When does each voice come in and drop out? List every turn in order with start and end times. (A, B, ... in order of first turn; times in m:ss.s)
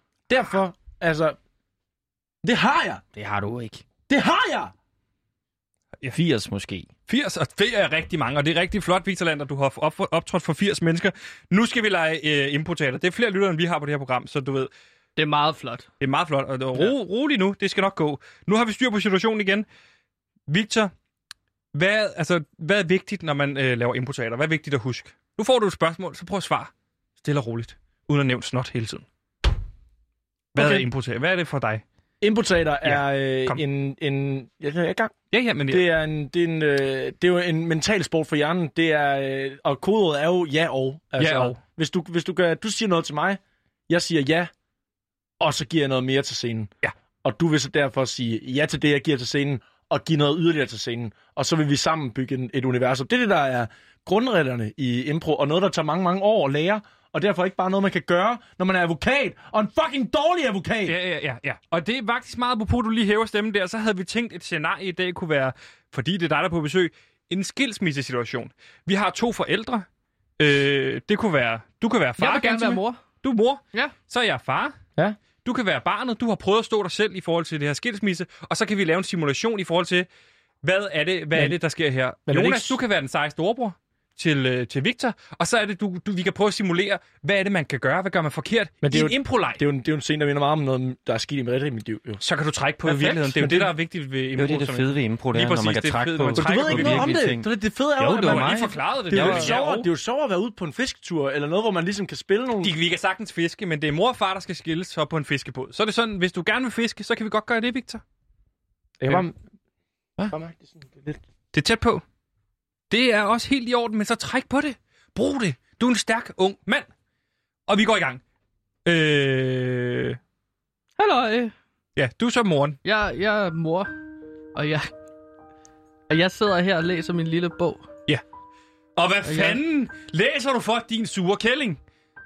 0:00.3-0:01.4 A
0:02.4-0:03.0 A
0:03.1-0:03.8 B
0:04.1-0:04.7 A
0:06.1-0:06.9 B
0:07.1-0:14.7 C
0:15.2-0:15.9 D
0:16.0-0:19.6 C
0:20.5-0:20.9 C
0:21.7-0:29.0 C
0:30.5-0:31.8 C
0:30.5-0:30.8 A
0:32.2-0:35.1 A
0:32.8-0:33.6 C
0:35.3-0:35.8 C
0:35.7-0:44.5 A
0:41.2-0:41.6 C
0:45.4-0:46.7 A
0:47.2-1:00.9 A
1:00.8-1:09.8 C
1:10.4-1:14.7 C
1:12.2-1:13.0 D
1:15.4-1:20.1 C
1:20.6-1:29.6 C
1:22.3-1:22.8 A
1:28.8-1:32.2 A
1:32.2-1:37.3 C
1:32.8-1:33.7 A
1:34.4-1:39.6 B
1:36.4-1:42.7 A
1:38.0-1:39.9 C
1:42.6-1:48.0 C
1:49.0-1:49.3 A
1:50.3-1:51.2 A
1:51.5-1:52.0 C
1:52.9-1:56.9 C
1:57.7-1:58.2 C
1:58.8-2:00.2 C
2:01.0-2:01.5 D
2:02.0-2:02.8 C
2:02.8-2:03.9 D
2:04.5-2:04.9 D
2:06.1-2:07.9 D
2:09.0-2:11.8 C
2:09.2-2:09.6 D